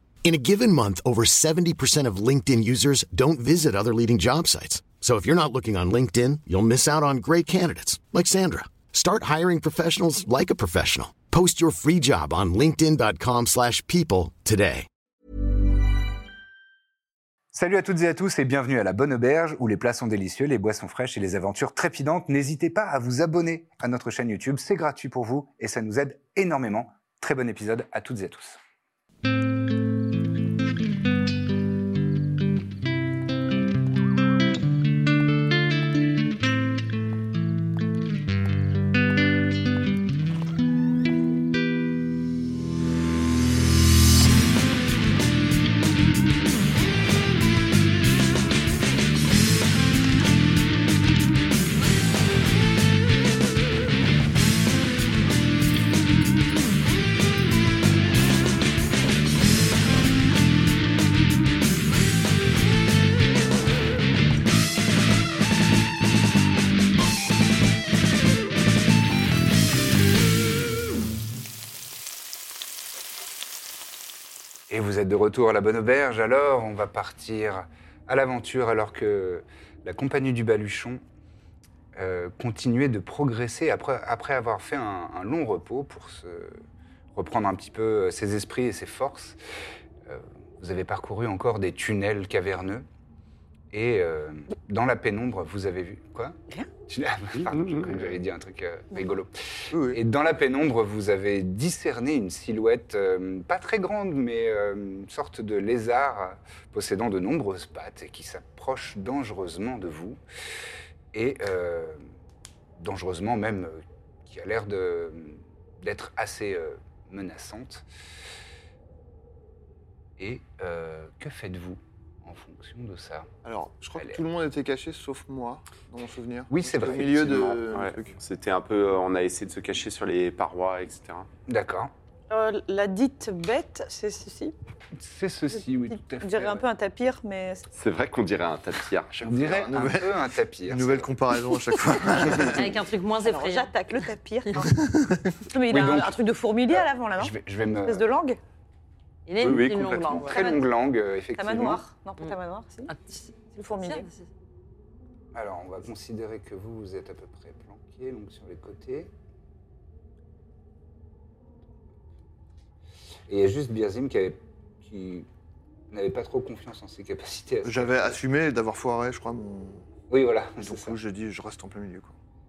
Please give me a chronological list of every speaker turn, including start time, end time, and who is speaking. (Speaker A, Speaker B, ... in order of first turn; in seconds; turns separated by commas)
Speaker A: 0.2-14.9, Speaker B: 17.5-28.6, Speaker B: 74.7-81.0, Speaker B: 82.0-86.6, Speaker B: 87.1-89.4, Speaker B: 90.1-92.9, Speaker B: 93.7-110.2, Speaker C: 97.4-98.0, Speaker D: 99.7-100.0, Speaker B: 111.1-112.0, Speaker B: 112.8-117.9, Speaker B: 120.2-123.3, Speaker D: 123.4-128.2, Speaker B: 126.5-127.7, Speaker C: 127.7-131.3, Speaker B: 131.5-131.9, Speaker E: 132.3-134.6, Speaker B: 134.9-136.7, Speaker E: 136.2-137.7, Speaker C: 137.7-139.5, Speaker D: 139.2-142.8, Speaker B: 139.2-141.1, Speaker F: 142.3-143.7, Speaker E: 143.2-144.7, Speaker D: 144.7-145.4, Speaker E: 145.5-148.4, Speaker B: 145.7-146.2, Speaker B: 146.7-148.1, Speaker F: 149.3-150.6, Speaker C: 149.4-150.2, Speaker B: 150.2-151.8, Speaker E: 151.4-152.9, Speaker F: 152.9-154.2, Speaker E: 153.5-154.1, Speaker B: 155.3-159.1, Speaker B: 163.3-165.3, Speaker B: 165.9-168.2, Speaker D: 167.6-169.9, Speaker B: 170.1-171.0, Speaker D: 170.6-172.2